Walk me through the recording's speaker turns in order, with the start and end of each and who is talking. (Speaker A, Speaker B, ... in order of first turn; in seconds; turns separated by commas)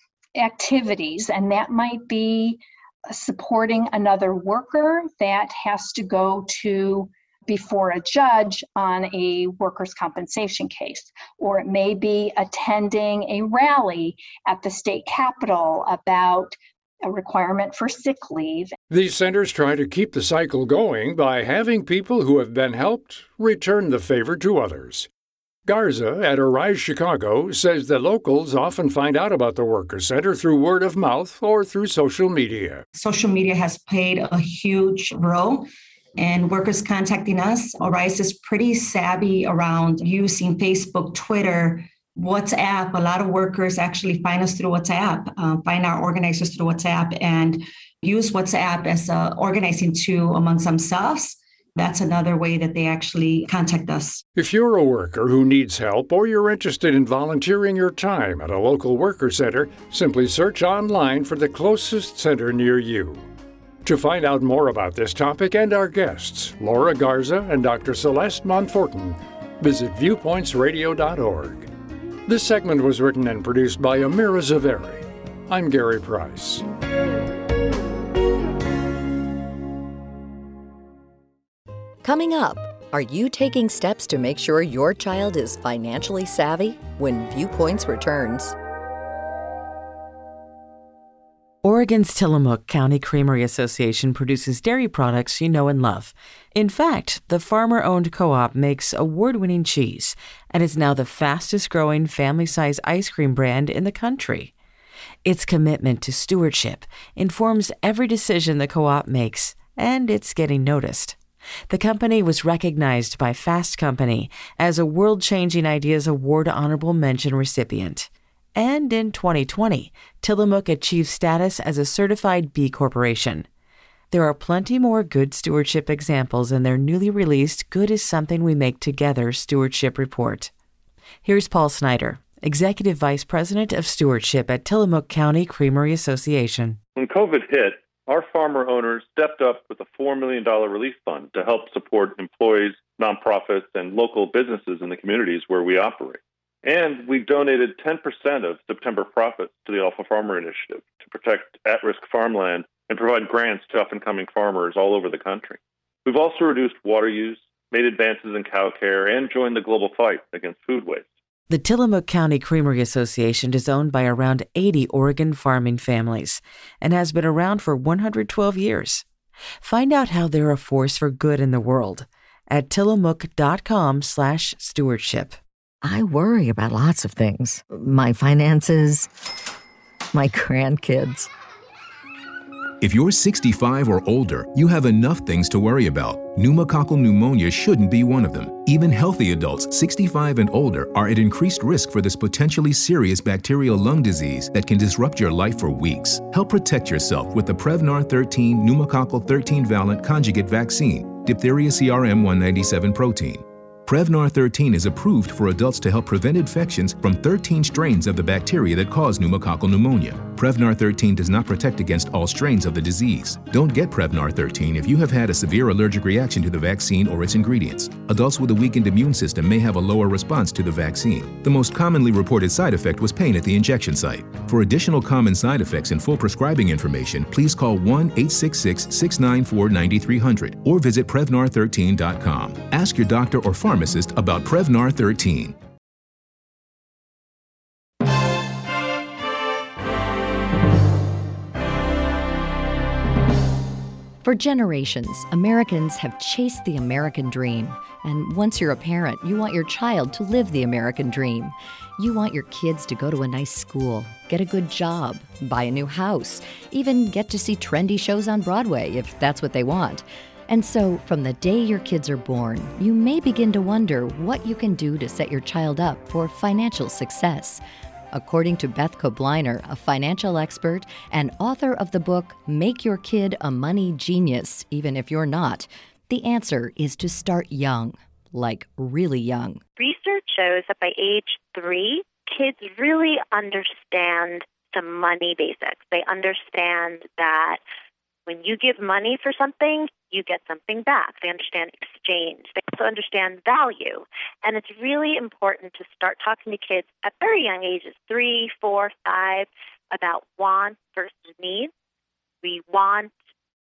Speaker A: 0.4-18.7, Speaker B: 18.9-25.1, Speaker B: 25.7-32.9, Speaker C: 32.9-54.2, Speaker B: 54.4-63.2, Speaker B: 63.8-71.7, Speaker B: 72.3-76.7, Speaker D: 82.0-88.5, Speaker E: 91.6-104.5, Speaker E: 105.2-111.2, Speaker E: 111.7-123.5, Speaker E: 124.1-130.5, Speaker E: 131.2-136.8, Speaker F: 137.0-161.1, Speaker E: 161.5-169.1, Speaker E: 169.6-175.4, Speaker D: 175.8-179.1, Speaker D: 180.1-181.3, Speaker G: 182.8-235.6, Speaker D: 244.2-267.6, Speaker D: 268.1-279.6, Speaker H: 279.8-287.6, Speaker H: 288.3-301.7, Speaker H: 302.4-303.1